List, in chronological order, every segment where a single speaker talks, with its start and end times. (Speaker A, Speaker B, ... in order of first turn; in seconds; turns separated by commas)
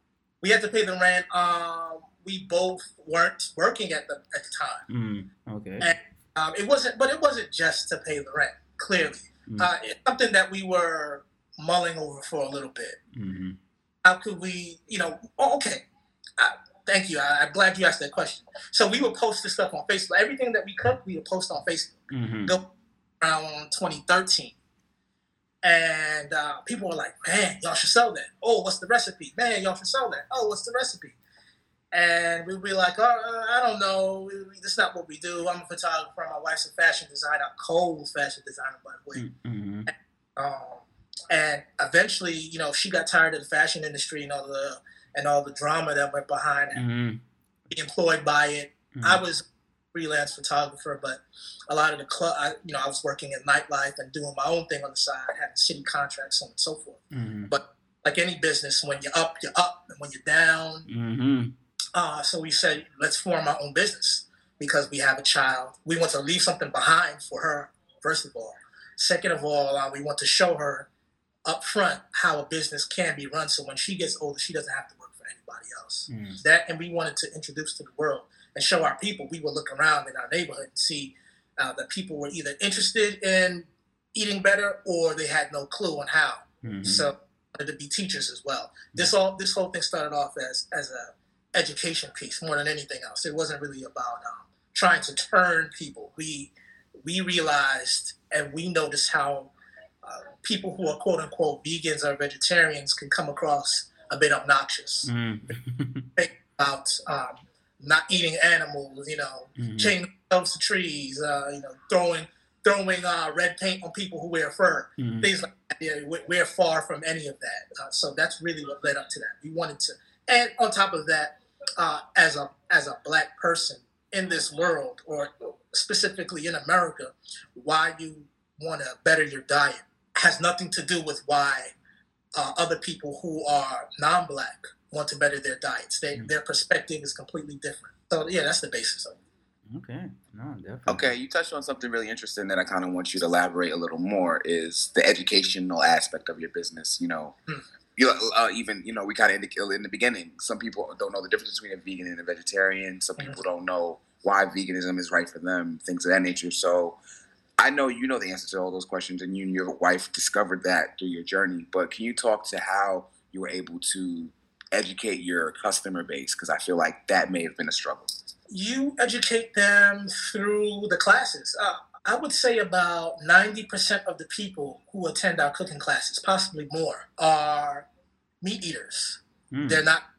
Speaker A: 0.4-4.8, Speaker B: 4.9-5.9, Speaker A: 5.8-13.0, Speaker B: 13.2-13.6, Speaker A: 14.0-15.8, Speaker A: 16.4-22.6, Speaker B: 22.1-22.6, Speaker A: 23.2-24.6, Speaker A: 25.6-31.2, Speaker A: 31.9-39.2, Speaker B: 39.1-39.9, Speaker A: 40.4-46.8, Speaker B: 46.8-47.2, Speaker A: 47.7-60.9, Speaker B: 49.0-49.2, Speaker B: 57.1-57.5, Speaker B: 60.9-61.5, Speaker A: 62.0-70.9, Speaker A: 71.5-99.5, Speaker B: 76.1-76.4, Speaker B: 86.6-87.1, Speaker A: 100.0-105.1, Speaker B: 105.1-106.1, Speaker A: 106.2-131.7, Speaker B: 109.6-110.0, Speaker B: 115.0-115.3, Speaker A: 132.3-139.2, Speaker B: 139.7-141.1, Speaker C: 140.9-147.3, Speaker C: 148.0-157.0, Speaker C: 157.6-168.2, Speaker A: 168.5-177.9, Speaker A: 178.4-180.1, Speaker B: 179.5-179.8